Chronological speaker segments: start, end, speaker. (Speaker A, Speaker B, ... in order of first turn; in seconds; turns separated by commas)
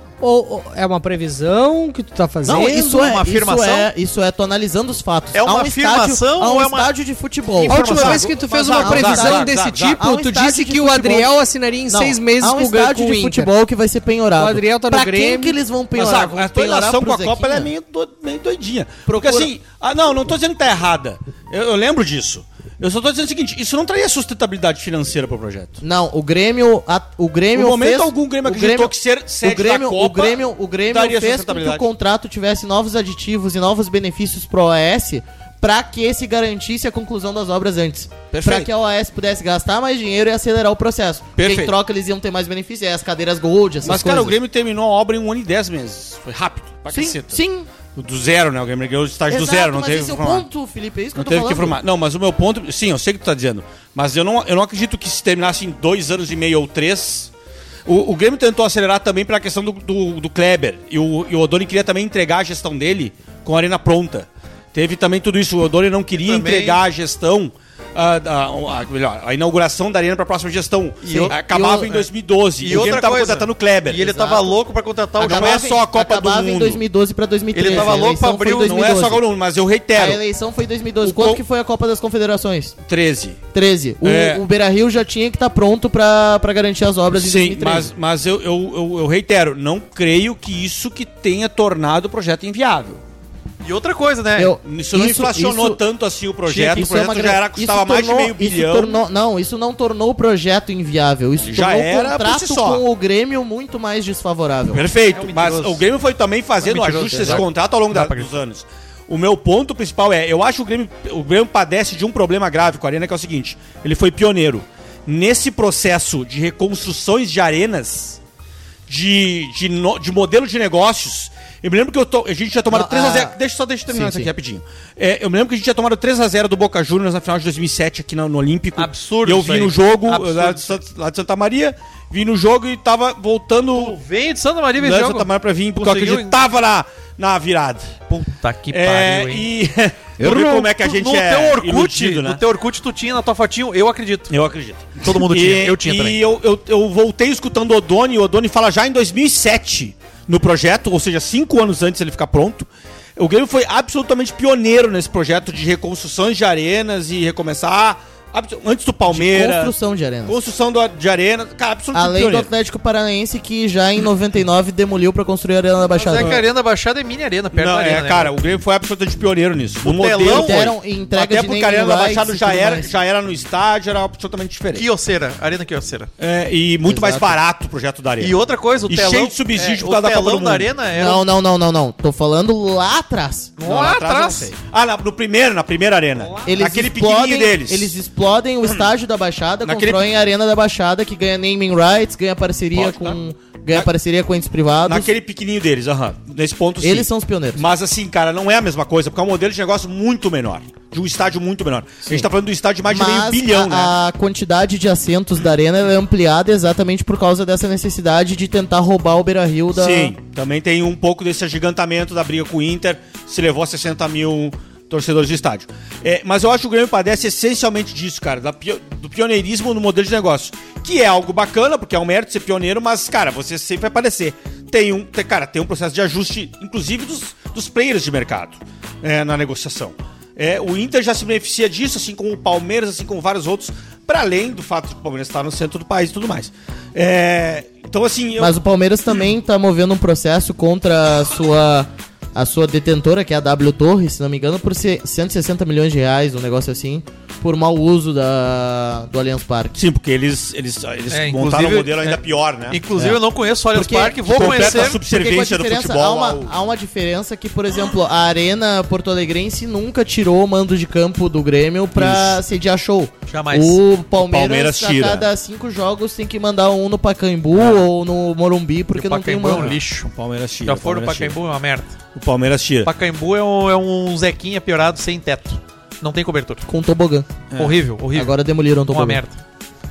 Speaker A: 0.2-3.1, Speaker B: 2.5-11.3, Speaker C: 2.5-3.9, Speaker C: 5.3-6.9, Speaker D: 7.6-10.0, Speaker A: 7.7-13.5, Speaker B: 11.9-17.7, Speaker A: 14.4-15.6, Speaker D: 15.9-25.8, Speaker B: 19.1-19.5, Speaker B: 25.8-44.4, Speaker D: 27.5-31.9, Speaker D: 38.3-38.7, Speaker D: 41.4-41.8, Speaker D: 43.8-47.4, Speaker B: 46.9-47.7, Speaker D: 47.9-50.5, Speaker B: 49.3-51.8, Speaker D: 51.1-57.3, Speaker D: 57.9-74.1, Speaker C: 66.2-66.8, Speaker C: 71.0-71.4, Speaker B: 71.1-72.0, Speaker C: 72.6-75.7, Speaker B: 74.0-74.5, Speaker D: 75.2-76.8, Speaker B: 75.2-79.2, Speaker C: 77.5-79.0, Speaker D: 77.7-78.0, Speaker D: 78.6-80.2, Speaker B: 79.9-82.8, Speaker D: 81.0-81.4, Speaker D: 82.9-83.4, Speaker B: 83.5-87.9, Speaker D: 84.0-84.4, Speaker D: 87.2-93.0, Speaker C: 93.6-94.5, Speaker B: 94.4-95.8, Speaker D: 94.6-99.0, Speaker B: 96.5-104.8, Speaker C: 96.6-96.8, Speaker D: 101.4-102.8, Speaker D: 104.7-118.2, Speaker C: 105.1-105.8, Speaker C: 106.6-108.4, Speaker B: 107.1-107.4, Speaker D: 118.9-134.0, Speaker B: 122.7-123.4, Speaker B: 123.9-124.3, Speaker C: 128.8-130.8, Speaker C: 133.7-136.4, Speaker D: 134.8-137.9, Speaker C: 138.1-139.5, Speaker D: 138.7-142.4, Speaker C: 140.2-144.3, Speaker D: 144.3-159.7, Speaker C: 145.0-146.2, Speaker B: 159.1-160.3, Speaker D: 160.3-162.5, Speaker B: 161.9-166.4, Speaker C: 165.9-168.3, Speaker D: 167.6-174.9, Speaker C: 169.8-170.6, Speaker B: 170.2-172.9, Speaker C: 174.8-176.1, Speaker D: 176.2-180.7, Speaker B: 176.8-177.4, Speaker C: 178.2-181.2, Speaker B: 180.9-183.5, Speaker C: 183.6-184.5, Speaker D: 183.6-187.9, Speaker B: 186.4-195.1, Speaker D: 189.7-190.0, Speaker D: 192.7-193.2, Speaker D: 194.9-203.9, Speaker B: 196.8-197.6, Speaker B: 202.9-210.1, Speaker D: 209.7-238.6, Speaker B: 238.4-249.8, Speaker D: 249.8-253.1, Speaker C: 251.1-255.0, Speaker B: 253.7-269.8, Speaker D: 254.2-256.5, Speaker D: 262.0-262.4, Speaker C: 263.3-263.8, Speaker D: 264.2-265.3, Speaker C: 268.9-270.1, Speaker D: 269.7-271.4, Speaker C: 270.6-272.0, Speaker D: 272.1-272.9, Speaker C: 272.9-276.6, Speaker B: 276.7-277.4, Speaker D: 277.5-277.8, Speaker C: 277.6-278.4, Speaker B: 278.1-279.2, Speaker C: 278.9-279.4